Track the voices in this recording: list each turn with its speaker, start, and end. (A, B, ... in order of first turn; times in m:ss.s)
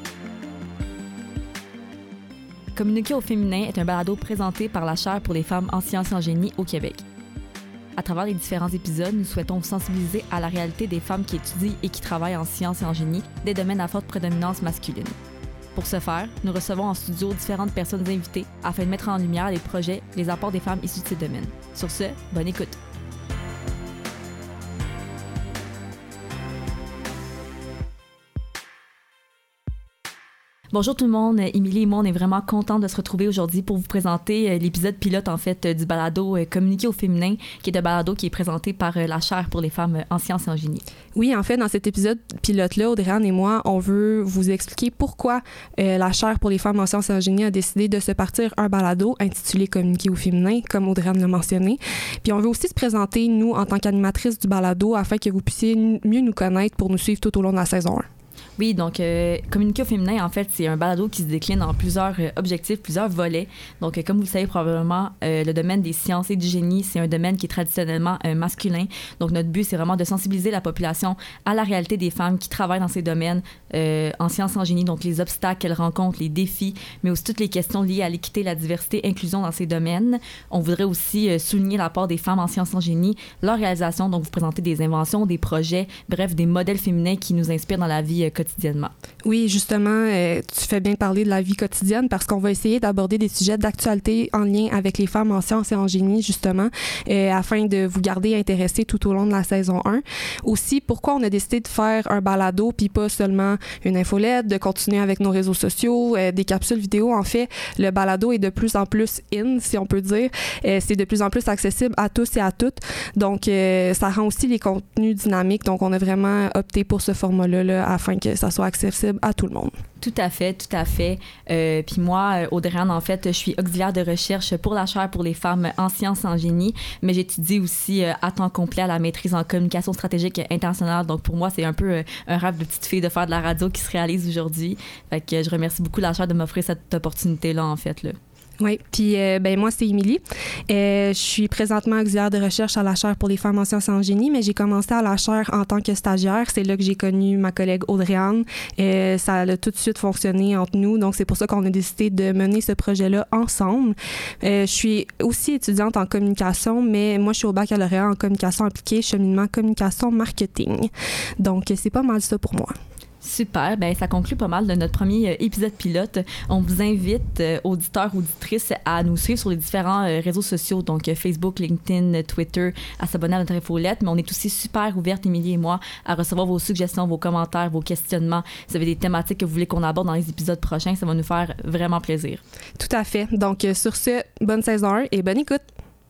0:02.7-0:07.0 A
0:08.0-0:15.1 A
0:15.7-0:22.8 A
0:30.7-0:40.8 A
0:41.1-0:58.0 B
0:58.6-1:28.9 A
1:29.2-1:59.7 B
2:00.0-2:18.2 A
2:18.6-2:42.7 B
2:43.2-3:02.4 A
3:02.8-3:05.6 B